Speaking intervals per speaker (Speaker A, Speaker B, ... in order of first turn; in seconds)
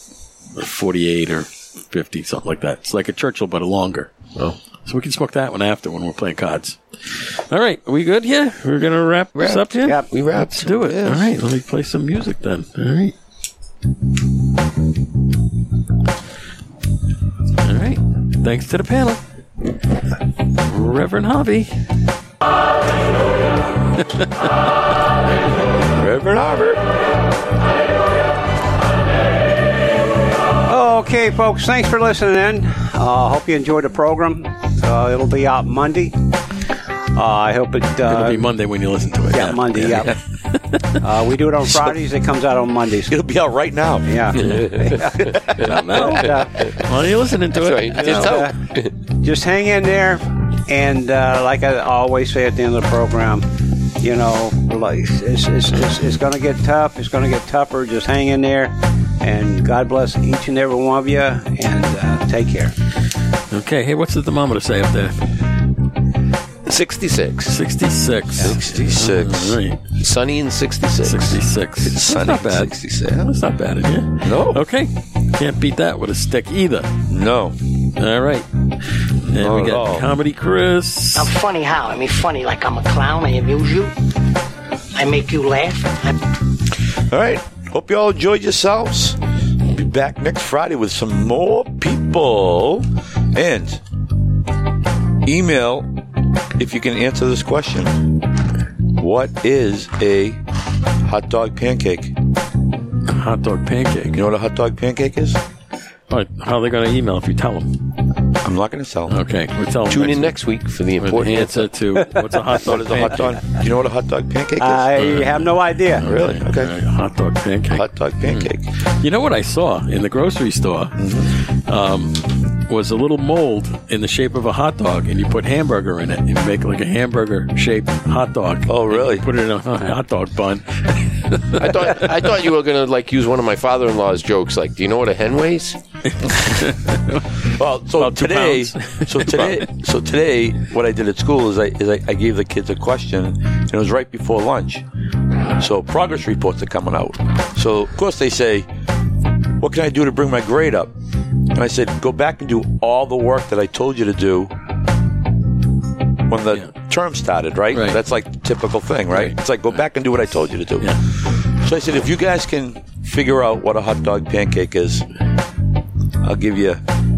Speaker A: 0.6-4.1, 4.8-13.1, 17.6-19.2, 20.6-21.8, 38.1-40.9, 45.6-48.5, 63.5-65.2, 67.5-69.8, 71.0-76.9, 78.0-78.5, 79.3-81.3, 103.1-104.2, 106.1-107.8, 109.1-110.3, 111.0-113.5, 115.0-115.4, 116.0-131.7, 136.2-137.3, 138.0-139.7, 157.7-158.0
Speaker B: 9.3-10.9, 47.5-48.9, 66.7-67.6, 70.0-71.4, 109.9-111.7, 131.5-135.8
Speaker C: 10.9-11.2, 26.0-26.8, 43.1-44.6, 45.2-45.7, 68.4-69.6, 71.8-73.3, 74.2-74.6, 77.1-77.5, 79.3-80.1, 87.1-93.8, 95.2-95.9, 96.6-98.1, 99.0-100.4, 101.0-102.2, 104.1-105.4, 108.4-109.2, 112.6-115.1, 116.0-116.7, 117.7-118.7, 121.0-121.3, 128.7-129.2, 137.4-144.8, 145.6-148.7, 149.6-150.9, 151.6-154.5, 156.3-161.0, 161.6-165.1, 166.2-166.8
Speaker D: 30.7-36.2, 37.1-38.5, 39.3-40.2, 41.0-43.2, 44.1-46.7, 48.0-48.5, 49.1-53.5, 54.0-62.7, 112.0-112.4, 114.6-116.1
Speaker E: 81.2-83.9, 84.9-86.3